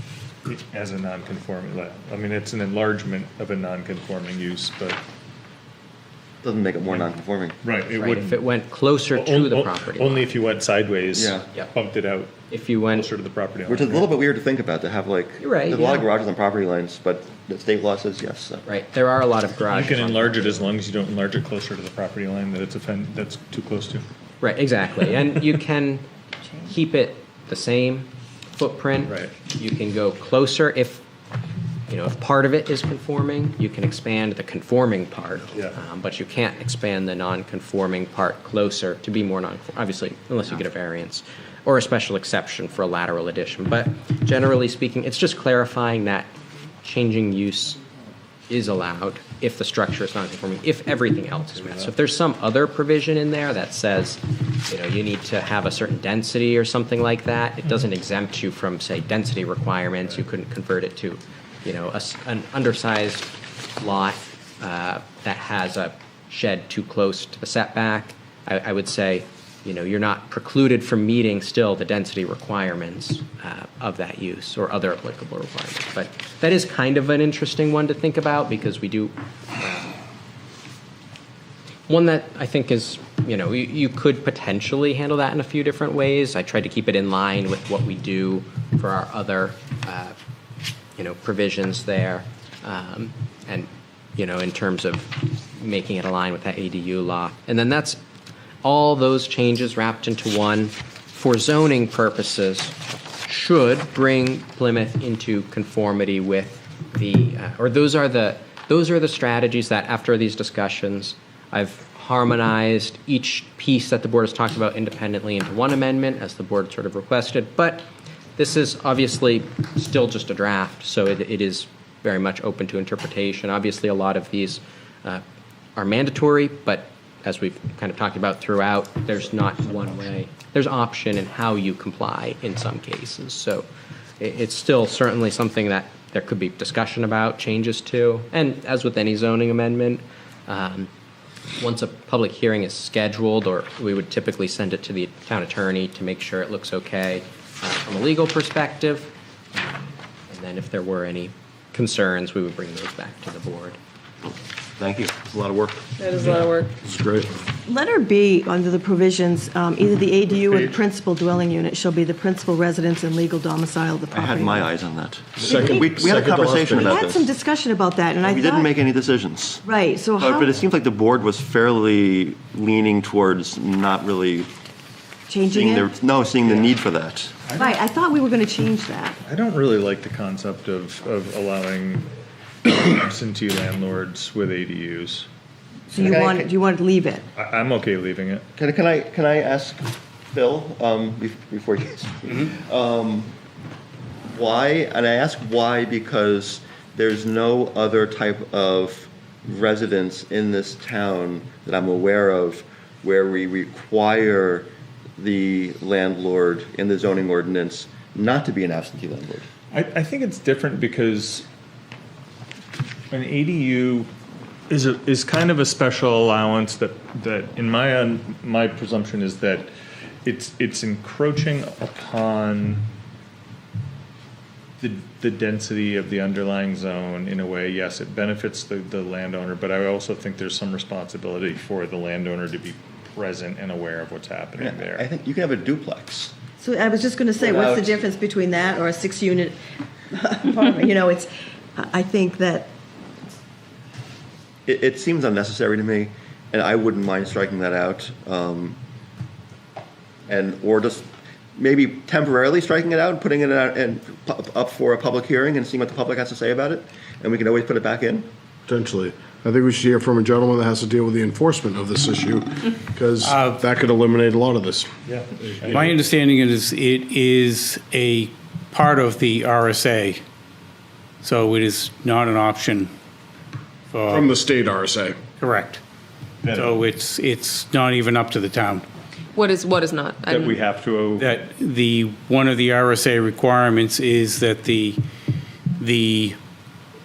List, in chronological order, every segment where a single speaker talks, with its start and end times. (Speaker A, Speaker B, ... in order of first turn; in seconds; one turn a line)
Speaker A: 0.5-5.0
Speaker B: 6.4-7.6
Speaker A: 7.6-8.4
Speaker C: 7.8-10.3
Speaker A: 9.1-14.1
Speaker B: 11.1-11.5
Speaker C: 12.5-13.1
Speaker B: 13.7-18.7
Speaker C: 15.4-16.1
Speaker C: 18.7-20.7
Speaker A: 19.7-24.1
Speaker C: 24.4-26.1
Speaker C: 26.7-31.0
Speaker A: 29.1-29.3
Speaker C: 31.9-47.8
Speaker C: 48.5-80.0
Speaker A: 51.6-51.9
Speaker C: 81.9-90.2
Speaker C: 91.0-98.0
Speaker C: 98.6-125.2
Speaker C: 125.8-133.7
Speaker C: 134.2-140.9
Speaker C: 141.6-149.1
Speaker C: 150.3-153.8
Speaker B: 154.8-155.8
Speaker D: 156.0-156.8
Speaker E: 156.9-157.3
Speaker F: 157.7-164.7
Speaker B: 164.1-167.3
Speaker E: 165.4-167.0
Speaker F: 165.4-168.7
Speaker B: 168.2-169.6
Speaker F: 169.7-170.5
Speaker B: 170.2-174.5
Speaker F: 175.3-175.9
Speaker B: 175.5-177.4
Speaker A: 176.5-176.8
Speaker A: 177.5-177.8
Speaker F: 177.5-179.2
Speaker A: 179.2-182.1
Speaker A: 182.7-185.3
Speaker B: 185.9-186.5
Speaker F: 185.9-187.3
Speaker A: 187.4-188.4
Speaker B: 188.6-193.3
Speaker B: 194.3-209.5
Speaker A: 209.7-211.5
Speaker A: 213.1-214.1
Speaker A: 214.7-219.7
Speaker A: 220.2-222.9
Speaker A: 224.8-235.1
Speaker B: 234.6-236.3
Speaker F: 236.6-239.6
Speaker B: 237.4-238.0
Speaker F: 240.1-242.7
Speaker B: 244.7-248.8
Speaker B: 250.3-258.3
Speaker E: 258.7-265.8
Speaker G: 263.2-263.6
Speaker A: 265.1-266.0
Speaker G: 265.7-270.2
Speaker G: 271.2-272.9
Speaker G: 273.9-274.3
Speaker E: 274.1-275.2
Speaker G: 275.4-275.8
Speaker A: 276.4-276.8
Speaker G: 276.4-278.8
Speaker D: 279.3-280.6
Speaker A: 280.3-281.4
Speaker G: 281.2-285.0
Speaker G: 285.8-286.4